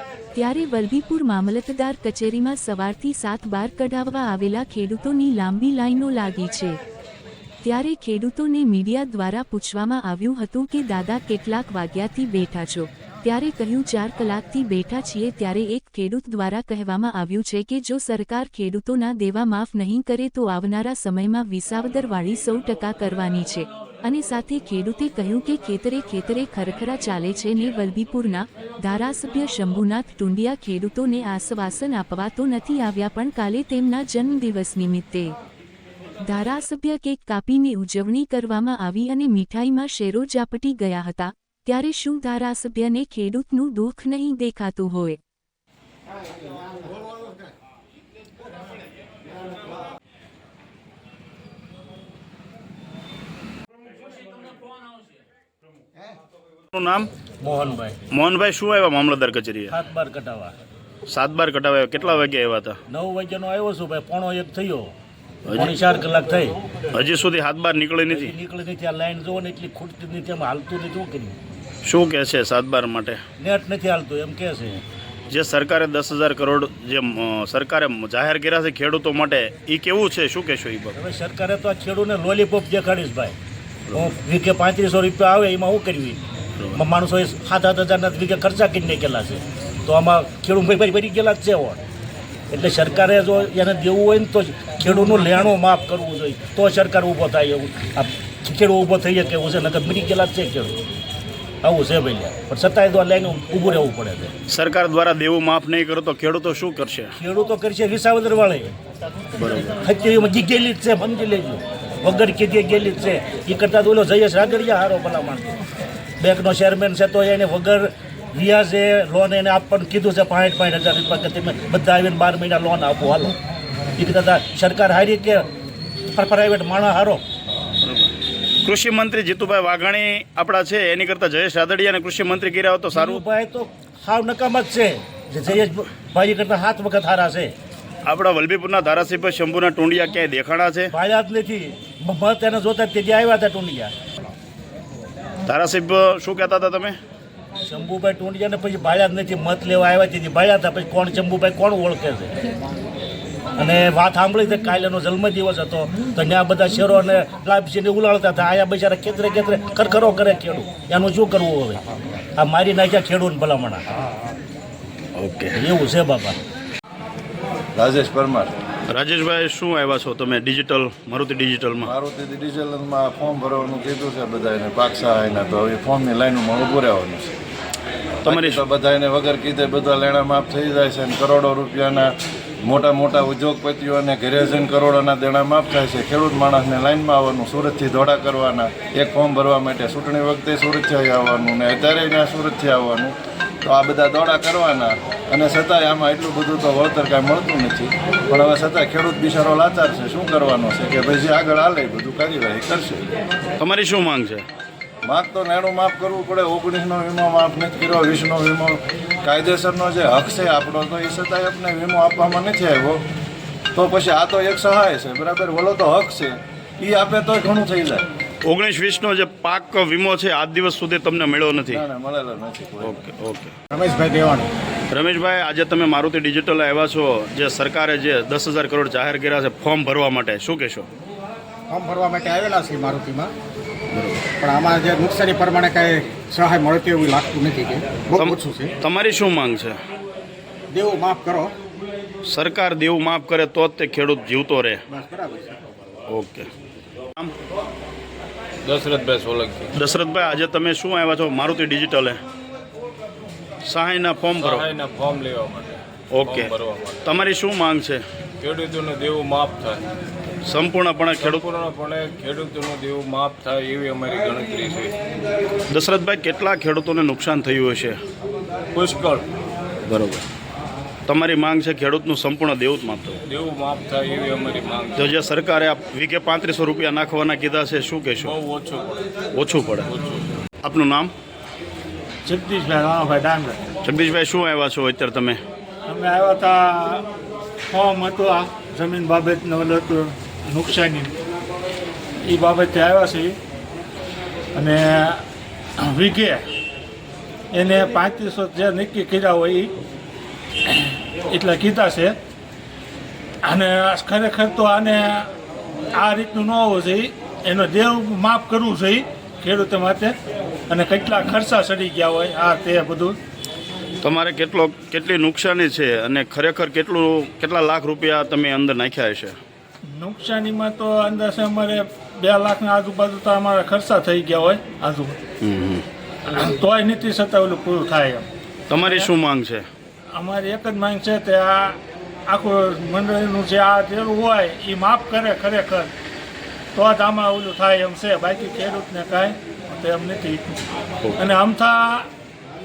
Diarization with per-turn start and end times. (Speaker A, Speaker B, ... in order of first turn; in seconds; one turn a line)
Speaker A: 0.3-6.8
Speaker A: 7.6-35.4
Speaker A: 36.2-45.2
Speaker B: 56.7-57.1
Speaker C: 57.4-58.0
Speaker B: 58.1-59.8
Speaker C: 59.7-60.5
Speaker B: 61.1-62.8
Speaker C: 62.9-64.9
Speaker B: 65.4-65.7
Speaker C: 65.5-66.6
Speaker B: 66.9-68.3
Speaker C: 68.1-71.4
Speaker B: 71.8-73.2
Speaker C: 73.4-74.8
Speaker B: 75.3-80.9
Speaker C: 80.9-83.4
Speaker C: 83.9-86.2
Speaker B: 86.6-86.8
Speaker C: 86.7-91.8
Speaker C: 92.5-100.8
Speaker C: 101.6-104.3
Speaker B: 104.5-107.1
Speaker C: 107.2-108.8
Speaker B: 109.3-109.8
Speaker C: 109.8-115.6
Speaker C: 116.2-123.3
Speaker C: 124.0-125.5
Speaker C: 126.1-127.2
Speaker B: 127.8-128.1
Speaker B: 128.6-133.2
Speaker C: 132.9-137.5
Speaker B: 138.0-140.9
Speaker C: 140.9-143.9
Speaker B: 145.4-147.0
Speaker C: 147.6-152.3
Speaker C: 153.6-161.8
Speaker C: 162.4-163.8
Speaker B: 165.2-165.6
Speaker C: 165.6-166.4
Speaker D: 167.7-168.5
Speaker B: 168.9-171.9
Speaker D: 171.8-177.3
Speaker B: 178.2-178.6
Speaker D: 178.2-203.1
Speaker B: 203.6-204.4
Speaker D: 205.1-213.0
Speaker D: 213.7-218.1
Speaker B: 218.4-221.8
Speaker D: 221.7-222.9
Speaker B: 222.8-223.5
Speaker E: 223.7-224.4
Speaker B: 224.9-230.9
Speaker E: 231.7-233.3
Speaker B: 233.9-234.2
Speaker E: 234.4-238.7
Speaker B: 238.1-239.8
Speaker E: 240.7-241.5
Speaker B: 242.2-244.8
Speaker E: 244.9-245.5
Speaker B: 246.1-246.5
Speaker F: 248.6-249.7
Speaker B: 249.7-252.2
Speaker B: 253.7-254.7
Speaker F: 254.4-257.1
Speaker B: 256.1-258.0
Speaker F: 258.4-259.8
Speaker B: 260.5-261.5
Speaker F: 261.2-264.9
Speaker B: 265.7-267.9
Speaker F: 268.7-269.2
Speaker B: 269.9-270.2
Speaker B: 271.1-273.2
Speaker F: 273.2-275.1
Speaker B: 274.9-278.4
Speaker F: 278.2-278.9
Speaker B: 279.3-279.9
Speaker F: 279.9-280.4
Speaker B: 280.6-281.1
Speaker G: 282.2-283.6
Speaker B: 283.8-285.4
Speaker G: 285.9-287.0
Speaker G: 287.7-291.1
Speaker G: 292.2-293.3
Speaker G: 294.5-295.2
Speaker G: 295.8-296.4
Speaker G: 297.5-299.7
Speaker G: 300.7-302.1
Speaker G: 303.4-305.3
Speaker G: 305.9-310.1
Speaker G: 310.7-313.1
Speaker B: 314.0-319.4
Speaker G: 319.9-325.2
Speaker B: 325.4-325.8
Speaker G: 326.3-329.1
Speaker B: 328.7-329.6
Speaker G: 330.1-335.9
Speaker G: 336.7-340.4
Speaker G: 341.2-342.1